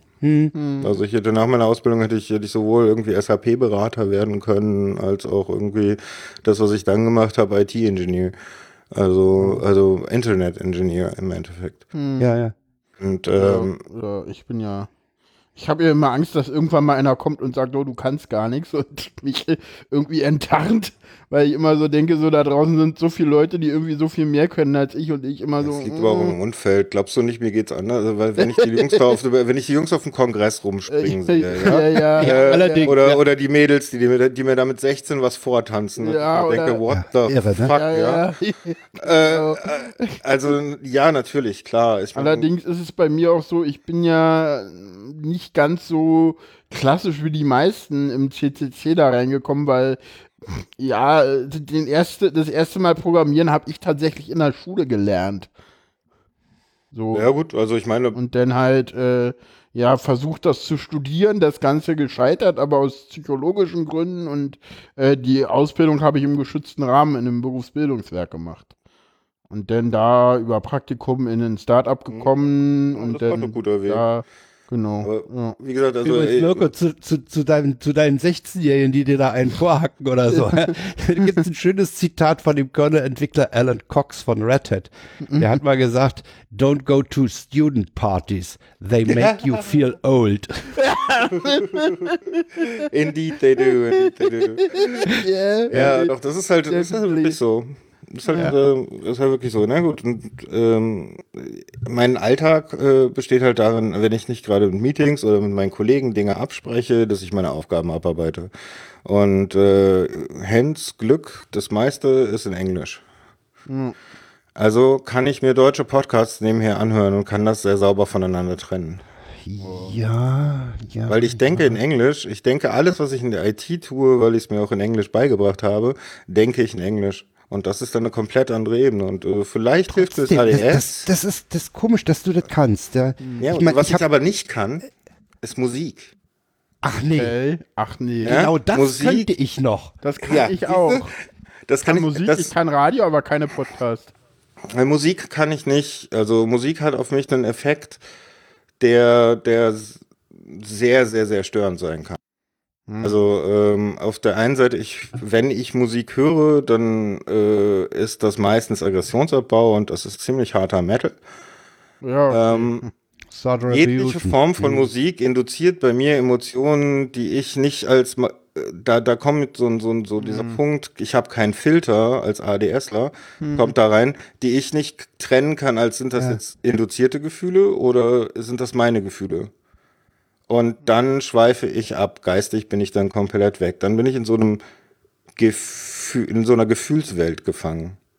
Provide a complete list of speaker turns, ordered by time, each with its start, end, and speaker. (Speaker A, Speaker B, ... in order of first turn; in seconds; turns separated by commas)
Speaker A: 0.2-0.5, Speaker B: 0.5-0.9, Speaker C: 0.8-8.3, Speaker C: 8.9-11.8, Speaker B: 11.9-12.3, Speaker A: 12.2-12.5, Speaker C: 13.0-13.8, Speaker B: 13.4-14.9, Speaker B: 15.6-26.4, Speaker C: 25.6-38.3, Speaker B: 28.4-29.0, Speaker B: 30.9-32.9, Speaker A: 31.7-33.2, Speaker B: 36.0-36.8, Speaker A: 36.9-37.8, Speaker B: 37.8-40.2, Speaker C: 39.0-42.5, Speaker B: 42.1-55.5, Speaker B: 56.9-57.2, Speaker C: 57.1-58.2, Speaker B: 58.1-68.7, Speaker B: 69.5-75.5, Speaker C: 72.9-74.1, Speaker C: 75.0-76.7, Speaker A: 76.0-90.8, Speaker C: 89.1-89.6, Speaker B: 90.8-92.7, Speaker C: 92.8-95.1, Speaker B: 94.6-96.1, Speaker C: 95.7-108.5, Speaker B: 96.7-97.4, Speaker C: 109.0-113.0, Speaker B: 113.7-114.0, Speaker C: 114.6-119.0, Speaker A: 119.5-121.8, Speaker B: 119.6-120.0, Speaker C: 121.1-131.1, Speaker A: 129.9-134.0, Speaker C: 133.4-134.9, Speaker C: 135.4-136.1, Speaker A: 136.8-137.3, Speaker B: 137.2-138.4, Speaker A: 138.2-139.9, Speaker C: 138.2-139.3, Speaker B: 140.0-141.1, Speaker C: 140.3-141.1, Speaker C: 141.7-142.5, Speaker B: 141.9-144.1, Speaker C: 144.7-148.0, Speaker C: 148.8-152.2, Speaker B: 152.9-153.2, Speaker C: 153.0-161.2, Speaker B: 162.0-162.9, Speaker C: 162.3-162.9, Speaker A: 163.3-164.9, Speaker C: 163.7-179.5, Speaker B: 170.2-170.6, Speaker B: 173.4-173.7, Speaker C: 180.5-184.6, Speaker C: 185.4-188.0